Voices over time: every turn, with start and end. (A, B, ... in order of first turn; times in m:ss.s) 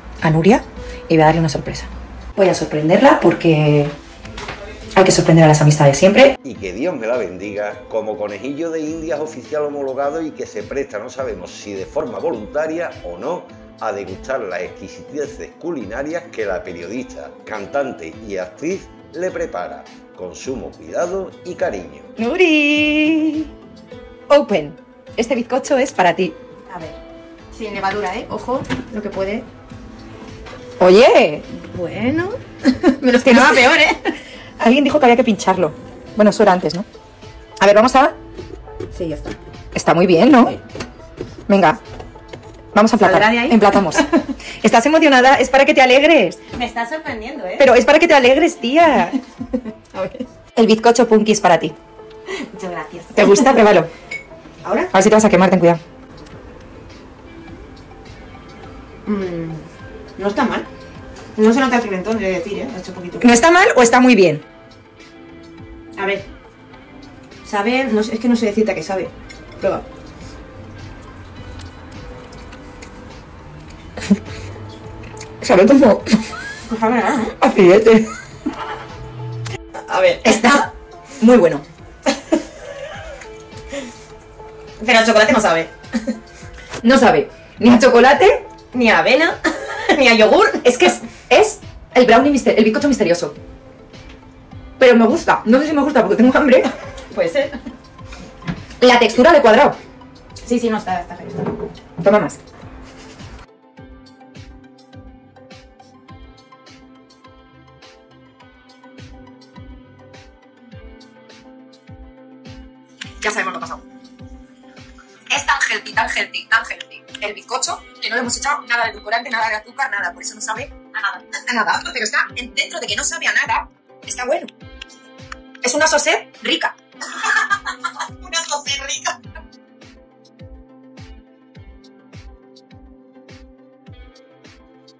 0:00.2-0:04.0 A
0:04.9-0:06.3 A
0:06.4-0:22.1 B
0:22.2-0:23.5 A
0:24.3-0:26.4 A
0:26.7-0:27.0 C
0:27.5-0:29.5 C
0:30.8-0:31.4 A
0:31.5-0:34.2 C
0:33.1-0:33.7 A
0:34.6-0:36.8 A
0:37.6-0:38.2 A
0:38.9-0:39.4 C
0:39.7-0:40.6 A
0:41.5-0:41.8 A
0:42.7-0:46.4 A
0:43.0-0:44.1 C
0:46.5-0:47.7 C
0:47.6-0:49.2 A
0:49.7-0:50.2 C
0:50.6-0:51.8 A
0:52.3-0:53.5 C
0:53.1-0:53.9 A
0:54.6-0:54.9 C
0:54.9-0:55.8 A
0:59.0-1:00.7 C
1:01.4-1:03.3 C
1:03.2-1:04.4 A
1:06.0-1:06.3 C
1:07.4-1:09.9 C
1:15.4-1:16.2 A
1:16.7-1:17.3 C
1:17.4-1:18.1 A
1:19.8-1:20.6 C
1:20.2-1:21.6 A
1:24.8-1:26.2 C
1:26.8-1:28.4 A
1:28.7-1:30.7 C
1:30.6-1:33.3 A
1:34.8-1:36.7 A
1:37.1-1:37.6 C
1:38.8-1:39.8 A
1:40.4-1:41.7 C
1:42.0-1:42.4 A
1:53.2-1:53.8 A
1:55.3-2:04.5 A
2:05.6-2:06.7 A
2:08.2-2:09.2 A